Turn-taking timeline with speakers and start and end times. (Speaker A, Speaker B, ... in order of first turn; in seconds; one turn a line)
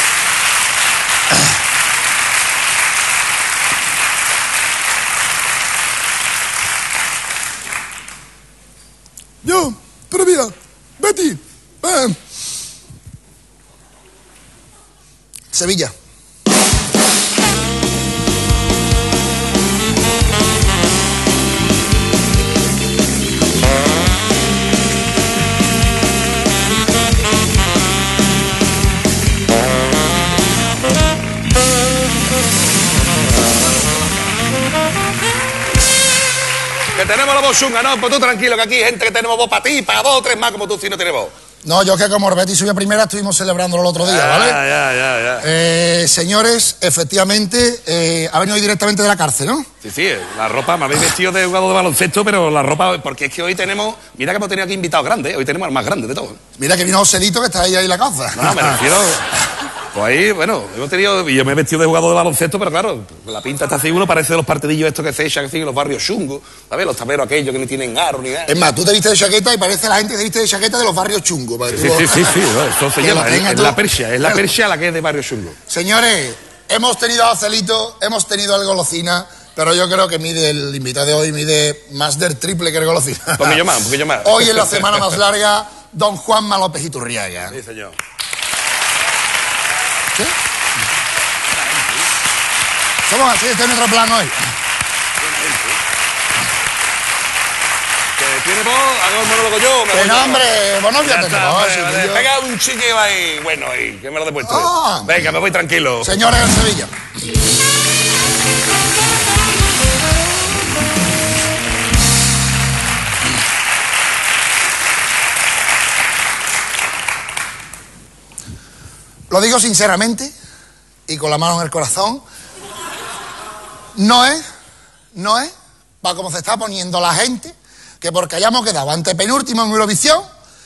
Speaker A: 9.4-12.2
Speaker A: 15.5-15.9
Speaker B: 36.9-41.3
Speaker A: 41.6-44.6
Speaker B: 44.0-45.4
Speaker A: 45.4-49.7
Speaker B: 49.8-56.4
Speaker A: 56.6-58.8
Speaker B: 58.3-68.5
Speaker A: 68.5-72.4
Speaker B: 71.7-75.5
Speaker A: 73.0-74.4
Speaker A: 75.7-83.6
Speaker B: 83.4-85.1
Speaker A: 84.2-87.6
Speaker B: 87.5-88.0
Speaker A: 93.0-94.5
Speaker B: 95.2-95.8
Speaker B: 98.2-106.1
Speaker A: 99.9-102.2
Speaker A: 104.4-105.1
Speaker A: 106.0-106.9
Speaker A: 119.3-120.3
Speaker A: 121.1-122.2
Speaker A: 123.9-124.4
Speaker A: 125.1-130.2